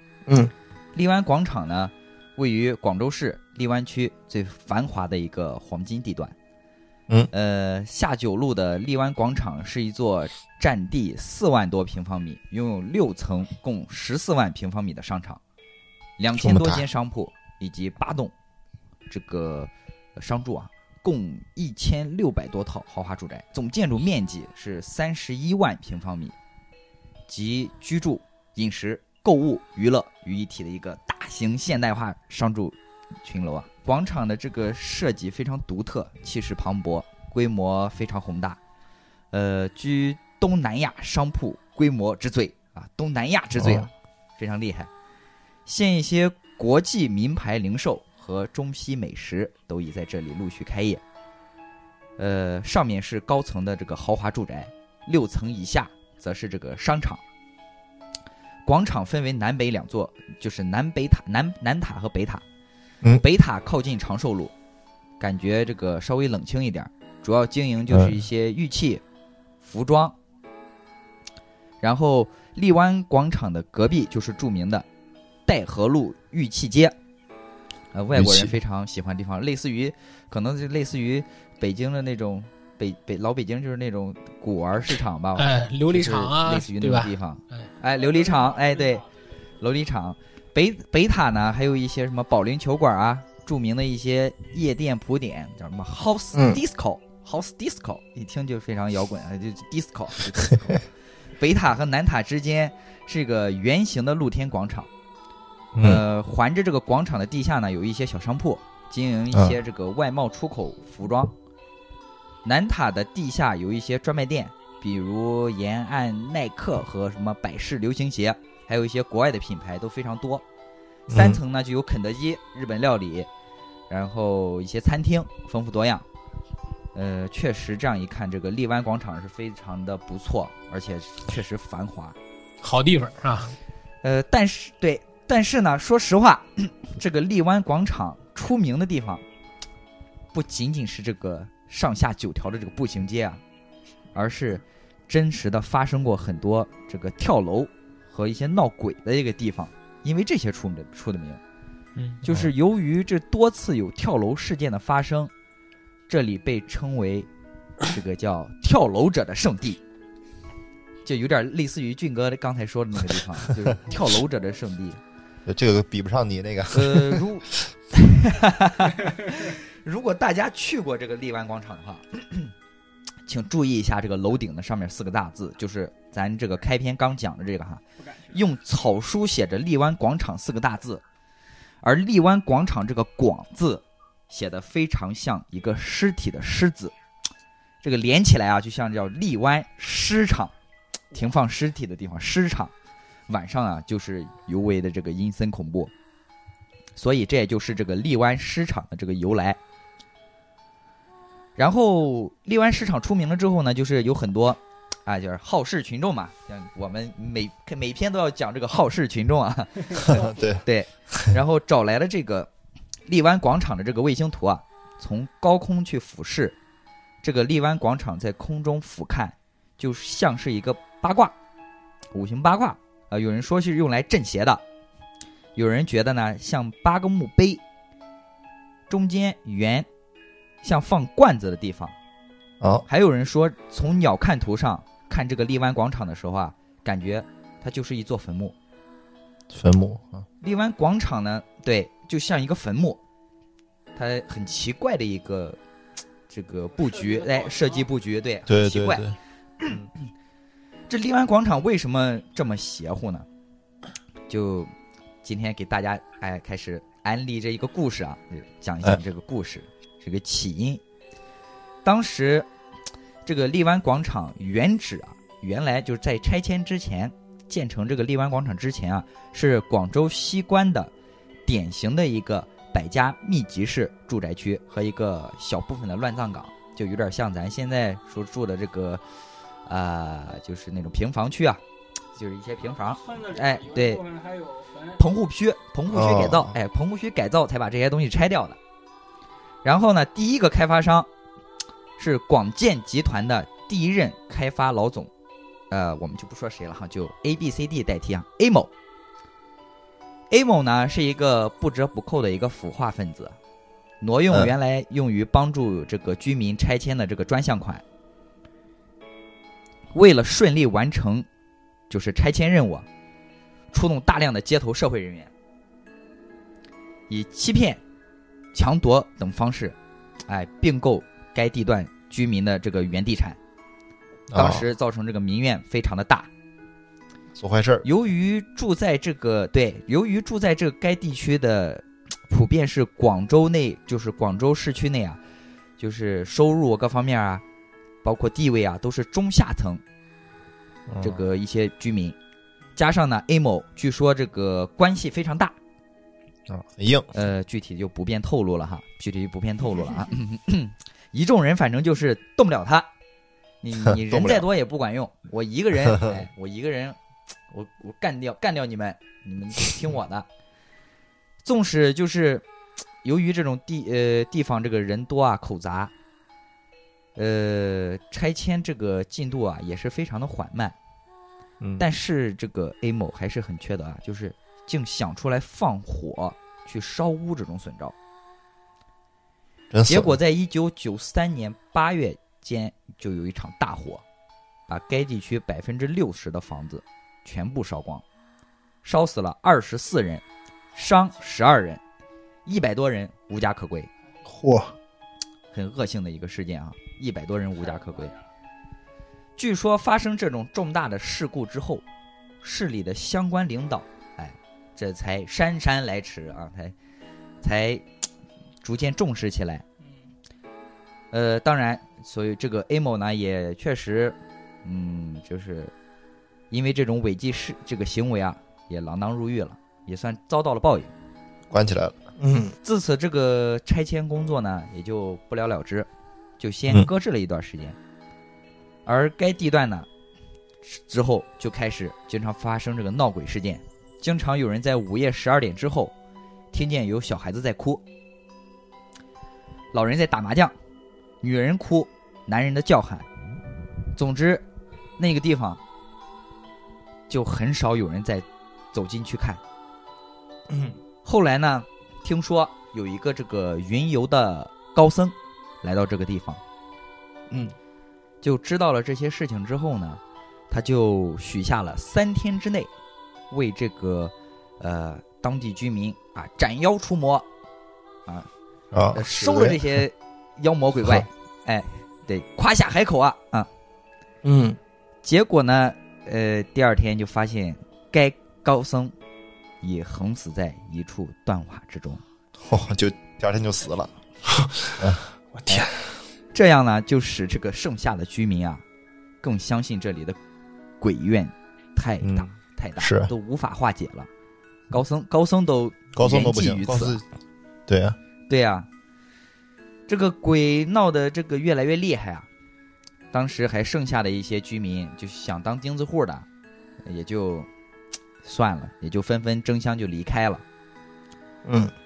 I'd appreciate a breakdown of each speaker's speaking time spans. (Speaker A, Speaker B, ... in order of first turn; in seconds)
Speaker A: 0.3-0.5, 96.3-96.6, 394.2-394.7, 422.2-422.6, 450.5-450.8, 474.2-474.6, 484.3-484.7, 485.3-485.9, 511.4-511.7
Speaker B: 0.9-6.3, 7.3-15.4, 16.2-18.3, 19.1-26.4, 27.3-38.6, 39.3-44.9, 45.6-51.0, 52.2-57.2, 58.6-62.4, 63.2-64.5, 65.2-69.0, 69.6-70.2, 71.8-74.8, 75.5-76.9, 77.9-89.0, 89.6-104.9, 105.8-111.3, 112.4-120.4, 121.1-123.3, 123.9-126.0, 126.9-132.2, 134.0-139.2, 140.3-143.4, 144.1-151.4, 152.2-155.3, 156.1-157.3, 157.8-159.8, 161.0-165.0, 166.7-172.5, 173.2-181.0, 181.8-186.9, 187.8-190.5, 191.1-192.7, 193.3-195.9, 196.9-199.6, 201.6-212.5, 213.1-216.6, 217.2-221.3, 222.1-224.6, 225.5-227.6, 228.9-229.9, 230.6-231.9, 232.9-238.5, 240.4-243.0, 243.9-245.6, 246.3-250.1, 250.9-253.2, 254.3-254.7, 255.2-260.8, 261.8-262.5, 263.2-270.9, 271.4-279.0, 279.6-281.6, 282.1-284.0, 285.0-288.6, 289.6-291.1, 292.0-295.1, 295.7-298.7, 300.3-303.4, 304.0-307.8, 309.9-311.2, 311.9-312.9, 313.7-315.3, 317.1-317.8, 318.5-319.8, 320.3-323.4, 324.3-326.3, 327.8-335.2, 335.8-337.4, 338.0-339.8, 341.0-342.1, 342.8-345.6, 347.1-352.9, 353.6-357.0, 357.5-360.2, 361.4-362.4, 363.0-365.9, 367.1-370.8, 371.8-377.9, 379.9-384.0, 384.7-388.0, 388.8-391.8, 392.4-393.9, 395.5-398.1, 399.4-401.8, 402.4-406.7, 407.4-407.9, 408.6-409.6, 411.1-415.7, 416.5-420.9, 422.6-425.9, 426.4-427.8, 428.8-429.9, 430.6-435.9, 436.5-437.8, 439.7-440.5, 441.2-443.1, 443.9-444.4, 445.0-445.6, 447.1-449.4, 451.0-456.4, 458.2-462.7, 463.3-467.3, 468.9-473.5, 475.0-478.9, 479.6-482.0, 486.3-488.6, 489.2-490.2, 490.8-494.1, 494.7-497.0, 498.3-498.7, 499.9-502.3, 503.1-506.2, 506.8-507.5, 508.2-510.4
Speaker C: 16.4-16.9, 43.6-43.9, 67.9-68.2, 78.1-78.5, 105.7-106.0, 121.1-121.4, 165.4-167.2, 209.9-211.3, 239.5-240.2, 248.5-249.1, 285.9-286.5, 304.3-304.5, 324.3-324.6, 327.3-327.9, 340.9-341.2, 346.5-347.1, 353.8-354.5, 371.6-371.9, 379.7-380.2, 421.5-422.0, 468.7-469.8, 482.4-483.9, 484.8-485.1, 492.0-493.1, 495.9-497.1, 497.7-497.9
Speaker D: 85.4-87.7, 132.6-133.5, 151.9-152.2
Speaker E: 178.0-178.3, 282.9-285.0